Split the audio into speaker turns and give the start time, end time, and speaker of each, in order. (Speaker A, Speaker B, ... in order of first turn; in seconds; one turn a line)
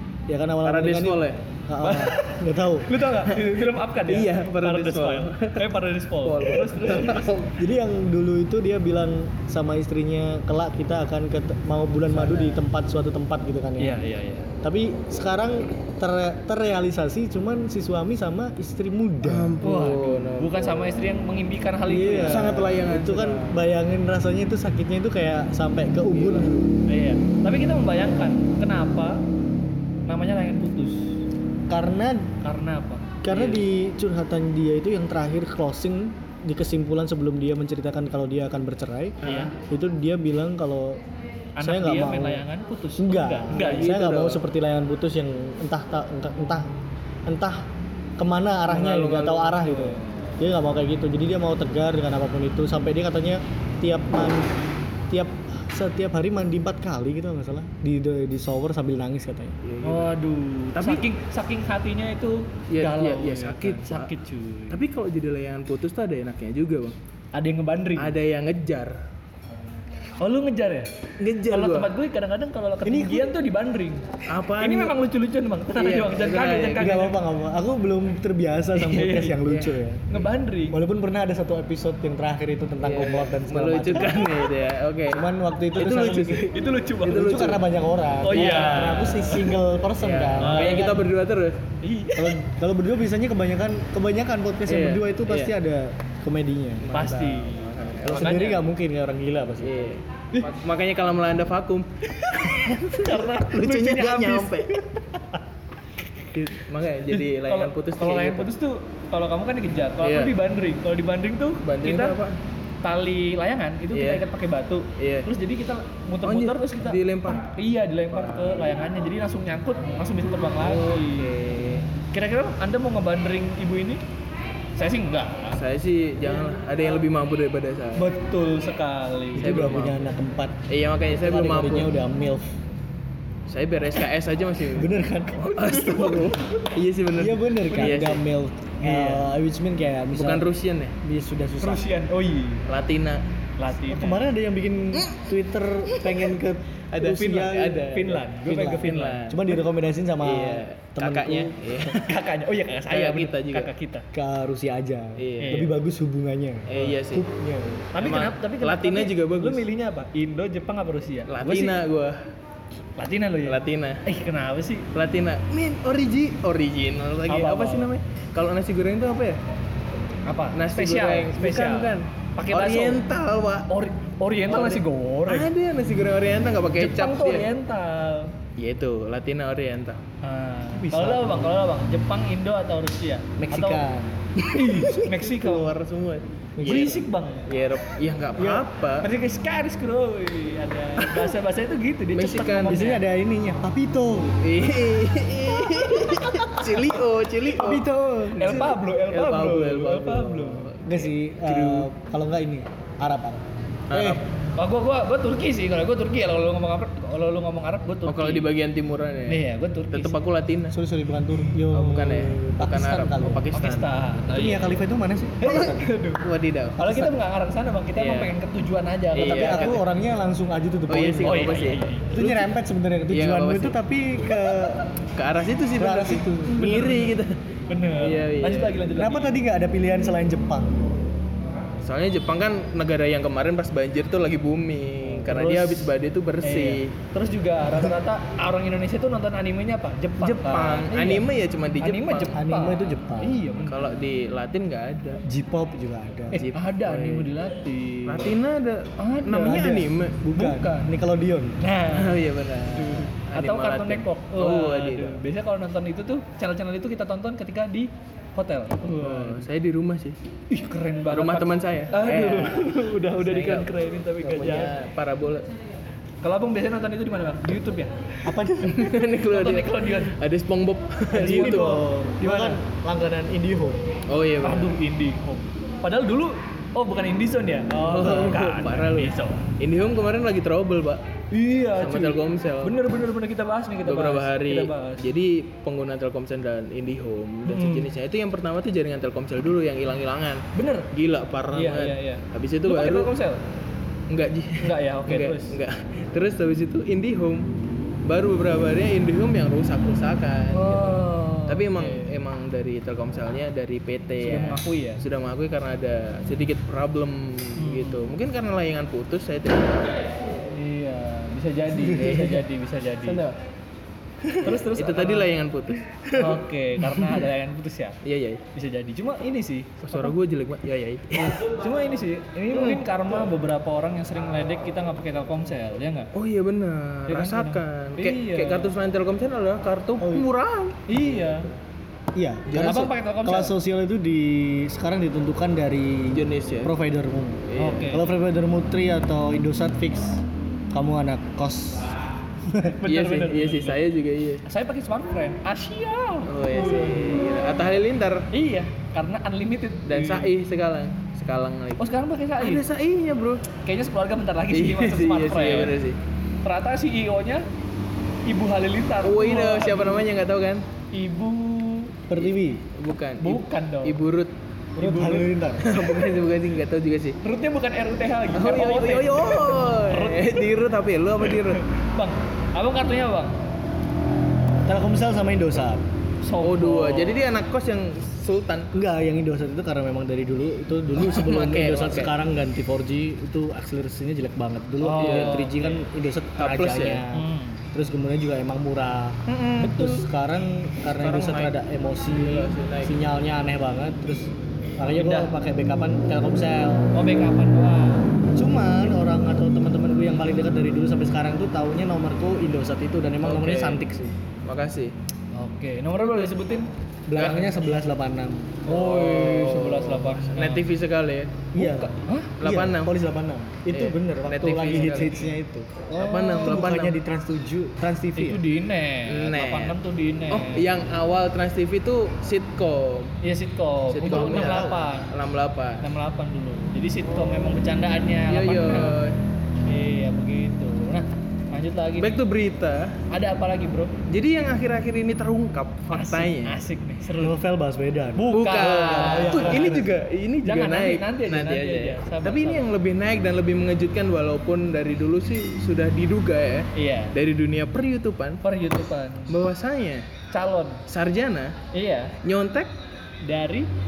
Speaker A: 0.3-2.9
Speaker B: 0.6-1.4
Speaker C: 1.8-7.3
Speaker B: 3.3-7.6
Speaker A: 7.6-14.0
Speaker C: 12.1-12.6
Speaker C: 13.8-14.5
Speaker A: 14.6-19.6
Speaker B: 19.2-21.2
Speaker C: 19.6-22.6
Speaker A: 21.9-26.5
Speaker B: 22.2-23.6
Speaker B: 26.1-26.8
Speaker C: 26.9-29.3
Speaker C: 30.1-31.1
Speaker A: 31.7-32.3
Speaker C: 32.4-33.2
Speaker A: 33.2-41.0
Speaker B: 33.3-33.6
Speaker C: 39.2-39.5
Speaker B: 39.2-39.5
Speaker C: 41.6-44.0
Speaker A: 41.6-42.5
Speaker A: 43.0-46.7
Speaker B: 43.5-44.4
Speaker A: 47.3-59.6
Speaker B: 48.7-49.7
Speaker C: 49.6-50.4
Speaker B: 59.6-60.1
Speaker C: 59.8-64.8
Speaker B: 60.8-61.0
Speaker B: 62.7-64.1
Speaker B: 64.7-67.0
Speaker C: 67.3-68.1
Speaker B: 68.0-69.0
Speaker C: 70.2-70.9
Speaker B: 71.2-71.9
Speaker C: 71.5-74.1
Speaker A: 72.8-73.3
Speaker B: 74.3-75.0
Speaker C: 74.6-77.2
Speaker B: 75.8-77.1
Speaker A: 76.8-80.0
Speaker C: 78.8-79.4
Speaker B: 79.5-80.3
Speaker C: 80.1-80.8
Speaker A: 80.7-84.3
Speaker B: 82.8-85.2
Speaker A: 85.1-86.5
Speaker B: 85.7-87.6
Speaker C: 86.5-87.4
Speaker A: 87.1-91.0
Speaker C: 88.2-89.6
Speaker B: 88.3-89.2
Speaker B: 90.0-91.6
Speaker C: 90.4-91.0
Speaker C: 91.8-92.4
Speaker A: 92.2-96.9
Speaker B: 94.7-95.5
Speaker B: 96.8-98.5
Speaker C: 96.9-98.6
Speaker A: 98.0-99.9
Speaker B: 99.6-104.8
Speaker C: 102.2-104.8
Speaker B: 106.3-108.5
Speaker C: 107.1-112.2
Speaker B: 110.0-110.3
Speaker B: 111.6-112.4
Speaker C: 112.8-124.0
Speaker B: 113.9-114.2
Speaker B: 115.0-115.3
Speaker B: 116.2-117.5
Speaker B: 118.1-118.7
Speaker B: 120.6-121.9
Speaker C: 124.8-125.6
Speaker B: 125.5-128.1
Speaker C: 128.0-129.8
Speaker A: 129.4-130.6
Speaker B: 129.4-130.0
Speaker B: 130.7-131.9
Speaker A: 131.2-132.6
Speaker B: 133.5-138.2
Speaker A: 134.8-135.7
Speaker C: 135.5-136.6
Speaker A: 137.1-140.5
Speaker C: 137.7-138.0
Speaker C: 138.9-139.2
Speaker B: 140.1-141.0
Speaker A: 141.0-141.9
Speaker C: 141.6-142.6
Speaker B: 142.7-143.2
Speaker C: 143.6-144.2
Speaker A: 143.9-147.8
Speaker B: 145.9-146.2
Speaker B: 146.9-149.6
Speaker C: 147.8-149.2
Speaker A: 148.5-151.6
Speaker B: 150.2-152.1
Speaker C: 151.9-154.1
Speaker B: 152.9-153.7
Speaker A: 154.1-157.8
Speaker B: 155.2-155.7
Speaker C: 155.4-155.7
Speaker B: 156.7-157.3
Speaker C: 157.9-161.8
Speaker B: 158.0-159.7
Speaker B: 161.3-162.2
Speaker C: 163.0-164.9
Speaker B: 163.4-164.0
Speaker B: 164.9-169.4
Speaker C: 167.3-167.9
Speaker C: 170.3-173.0
Speaker B: 170.5-173.7
Speaker C: 173.7-175.5
Speaker B: 174.5-177.5
Speaker C: 176.8-178.3
Speaker B: 178.6-180.0
Speaker C: 180.2-183.8
Speaker A: 180.7-181.6
Speaker A: 183.4-184.3
Speaker C: 184.5-185.8
Speaker B: 184.7-189.1
Speaker A: 186.6-186.9
Speaker C: 186.6-187.5
Speaker A: 188.4-188.6
Speaker C: 189.0-193.0
Speaker B: 192.1-192.9
Speaker A: 192.7-194.4
Speaker B: 194.4-197.9
Speaker A: 197.5-198.7
Speaker C: 198.4-200.7
Speaker B: 198.4-201.9
Speaker A: 200.8-204.2
Speaker B: 203.9-204.2
Speaker C: 204.6-208.5
Speaker B: 208.1-210.8
Speaker C: 209.3-210.2
Speaker A: 210.7-213.4
Speaker B: 211.7-213.9
Speaker C: 213.5-214.8
Speaker A: 214.3-215.9
Speaker C: 215.4-216.2
Speaker B: 216.2-217.1
Speaker C: 216.8-219.8
Speaker B: 218.0-218.3
Speaker B: 219.1-219.8
Speaker A: 219.2-221.5
Speaker B: 220.9-222.5
Speaker C: 221.2-222.2
Speaker A: 222.1-224.9
Speaker B: 223.1-223.8
Speaker B: 225.1-227.4
Speaker A: 225.8-226.4
Speaker C: 226.5-227.2
Speaker C: 227.7-229.3
Speaker B: 228.0-228.8
Speaker A: 229.0-231.0
Speaker B: 231.8-236.9
Speaker C: 235.2-235.9
Speaker C: 236.4-241.3
Speaker B: 240.2-242.4
Speaker C: 241.8-243.9
Speaker A: 242.4-243.4
Speaker B: 243.7-245.2
Speaker A: 245.3-246.4
Speaker C: 246.3-248.3
Speaker B: 246.3-247.3
Speaker B: 248.1-250.6
Speaker C: 249.0-249.8
Speaker A: 249.4-251.6
Speaker C: 250.4-250.7
Speaker C: 251.6-259.4
Speaker B: 251.9-255.2
Speaker B: 259.0-260.2
Speaker C: 260.5-264.7
Speaker B: 261.1-265.5
Speaker C: 266.2-268.1
Speaker A: 268.3-268.9
Speaker B: 268.6-271.8
Speaker C: 269.3-270.1
Speaker A: 271.1-273.8
Speaker C: 271.2-272.6
Speaker B: 274.1-274.8
Speaker C: 274.4-279.5
Speaker B: 277.8-281.0
Speaker C: 281.3-285.1
Speaker B: 281.8-282.8
Speaker B: 283.9-293.1
Speaker C: 287.5-287.9
Speaker C: 290.5-290.9
Speaker C: 291.5-293.4
Speaker B: 294.1-297.5
Speaker C: 294.6-295.6
Speaker B: 298.1-310.1
Speaker C: 300.5-302.1
Speaker C: 304.2-305.0
Speaker C: 307.6-308.1
Speaker C: 310.5-313.2
Speaker B: 311.8-312.4
Speaker B: 313.0-313.4
Speaker B: 314.3-315.9
Speaker C: 314.4-315.3
Speaker C: 316.1-318.0
Speaker B: 318.0-318.4
Speaker C: 318.5-320.1
Speaker B: 319.8-321.4
Speaker C: 321.2-326.1
Speaker B: 322.5-322.9
Speaker B: 326.1-331.1
Speaker C: 327.1-328.7
Speaker A: 330.0-330.3
Speaker C: 330.9-331.5
Speaker A: 332.1-341.9
Speaker C: 332.5-333.6
Speaker B: 332.5-332.9
Speaker B: 336.1-336.7
Speaker B: 337.5-338.0
Speaker C: 337.6-338.1
Speaker A: 342.4-342.8
Speaker C: 342.8-343.8
Speaker B: 342.9-344.4
Speaker C: 344.5-347.4
Speaker B: 346.3-348.3
Speaker C: 348.3-350.3
Speaker B: 349.9-351.8
Speaker C: 351.8-352.6
Speaker B: 352.4-353.4
Speaker C: 353.6-355.8
Speaker B: 354.5-356.0
Speaker C: 356.4-357.5
Speaker C: 358.3-360.1
Speaker B: 359.0-360.6
Speaker C: 360.9-362.0
Speaker A: 362.1-362.6
Speaker B: 362.1-364.3
Speaker C: 363.2-364.0
Speaker C: 364.8-365.3
Speaker A: 364.8-365.8
Speaker B: 365.6-367.2
Speaker C: 367.2-370.5
Speaker B: 368.3-371.6
Speaker C: 371.2-373.4
Speaker A: 374.7-375.8
Speaker C: 376.2-377.2
Speaker B: 376.4-378.7
Speaker A: 378.7-396.9
Speaker B: 381.0-382.1
Speaker C: 384.8-385.8
Speaker B: 385.0-385.6
Speaker B: 386.4-387.0
Speaker C: 387.1-387.6
Speaker B: 389.3-389.9
Speaker C: 389.6-390.1
Speaker B: 391.0-391.6
Speaker B: 392.1-392.9
Speaker C: 394.9-395.3
Speaker C: 396.9-398.1
Speaker A: 398.4-404.1
Speaker B: 403.2-403.8
Speaker B: 404.4-404.9
Speaker C: 405.3-406.7
Speaker B: 406.0-406.3
Speaker A: 407.1-408.6
Speaker B: 407.2-407.6
Speaker C: 408.7-410.7
Speaker B: 408.7-411.5
Speaker A: 411.5-418.4
Speaker C: 411.6-412.3
Speaker B: 412.4-412.9
Speaker B: 413.7-415.1
Speaker C: 414.8-415.3
Speaker B: 416.0-417.0
Speaker C: 416.0-416.6
Speaker C: 418.2-420.6
Speaker B: 419.1-419.8
Speaker B: 420.3-423.1
Speaker C: 423.2-425.1
Speaker B: 423.9-425.8
Speaker A: 424.1-424.8
Speaker C: 425.8-429.0
Speaker B: 428.3-429.2
Speaker C: 429.7-432.1
Speaker B: 432.0-433.0
Speaker C: 433.1-433.9
Speaker B: 434.1-436.6
Speaker C: 435.9-437.4
Speaker A: 437.2-439.9
Speaker C: 438.2-439.8
Speaker B: 438.3-448.4
Speaker C: 440.4-442.7
Speaker C: 446.8-447.1
Speaker C: 448.4-449.4
Speaker B: 449.3-450.1
Speaker C: 450.3-450.8
Speaker B: 450.9-451.6
Speaker C: 451.7-452.1
Speaker B: 452.2-452.7
Speaker C: 453.2-453.7